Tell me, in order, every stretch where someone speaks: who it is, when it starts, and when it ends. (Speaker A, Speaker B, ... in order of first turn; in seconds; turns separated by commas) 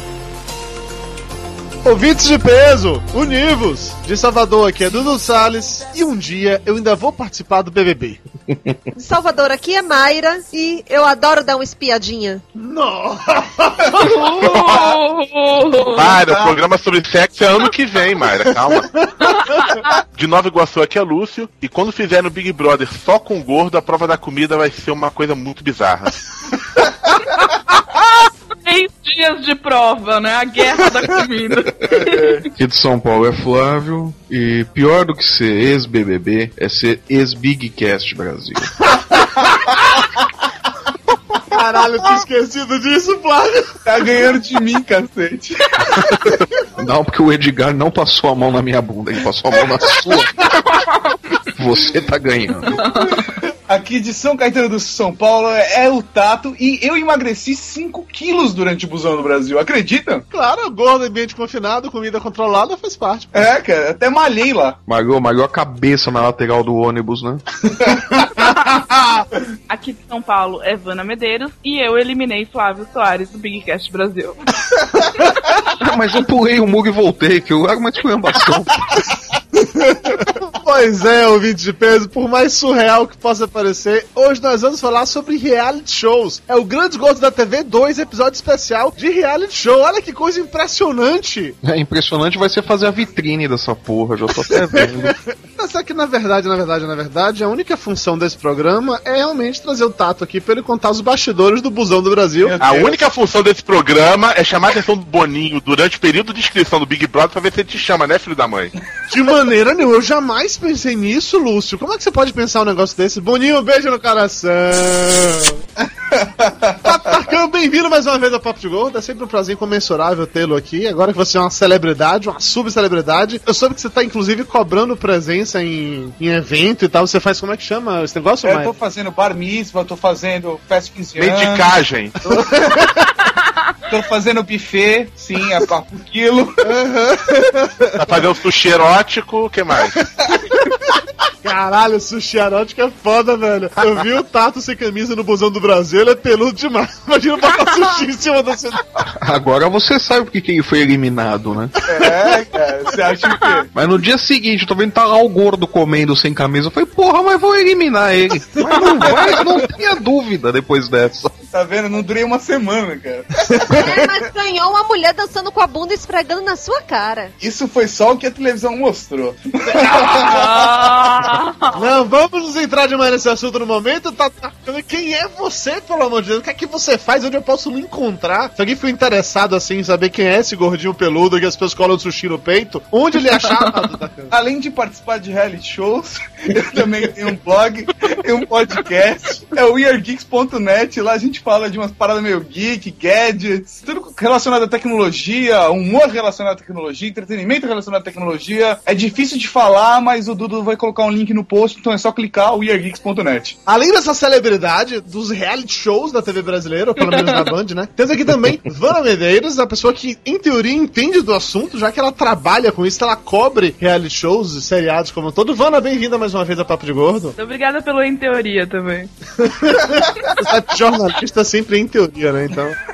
Speaker A: 1.8-8.2, Speaker B: 8.5-8.7, Speaker C: 8.9-12.4, Speaker A: 12.5-14.0, Speaker D: 13.9-16.2, Speaker E: 14.4-14.9, Speaker E: 15.9-18.9, Speaker F: 16.2-16.6, Speaker E: 20.1-26.2, Speaker D: 28.6-32.4, Speaker F: 31.9-32.5, Speaker B: 32.6-39.0, Speaker A: 41.4-43.9, Speaker F: 43.8-46.1, Speaker B: 46.8-50.5, Speaker F: 49.6-49.9, Speaker B: 51.5-52.7, Speaker D: 52.7-53.2, Speaker F: 52.7-60.2, Speaker A: 60.3-63.4, Speaker F: 63.3-64.8, Speaker B: 64.9-67.4, Speaker D: 69.7-74.4, Speaker B: 75.7-79.1, Speaker A: 79.5-91.6, Speaker B: 91.6-95.2, Speaker A: 94.7-102.6, Speaker F: 102.4-103.0, Speaker E: 102.6-108.7, Speaker A: 109.1-115.6, Speaker F: 116.0-116.9, Speaker A: 116.8-128.8, Speaker F: 128.4-133.0, Speaker E: 131.2-132.2, Speaker A: 132.3-132.9, Speaker F: 133.9-136.5, Speaker A: 136.6-138.1, Speaker E: 138.0-140.0, Speaker A: 141.4-148.8, Speaker B: 149.0-151.8, Speaker F: 151.8-153.7, Speaker B: 153.7-161.3, Speaker A: 158.7-159.3, Speaker F: 161.5-164.1, Speaker A: 163.5-163.8, Speaker C: 163.7-167.3, Speaker F: 167.4-170.8, Speaker A: 169.7-170.6, Speaker D: 170.0-171.8, Speaker A: 171.7-184.3, Speaker F: 184.3-203.6, Speaker A: 203.7-217.3, Speaker D: 217.4-219.1, Speaker A: 219.4-222.8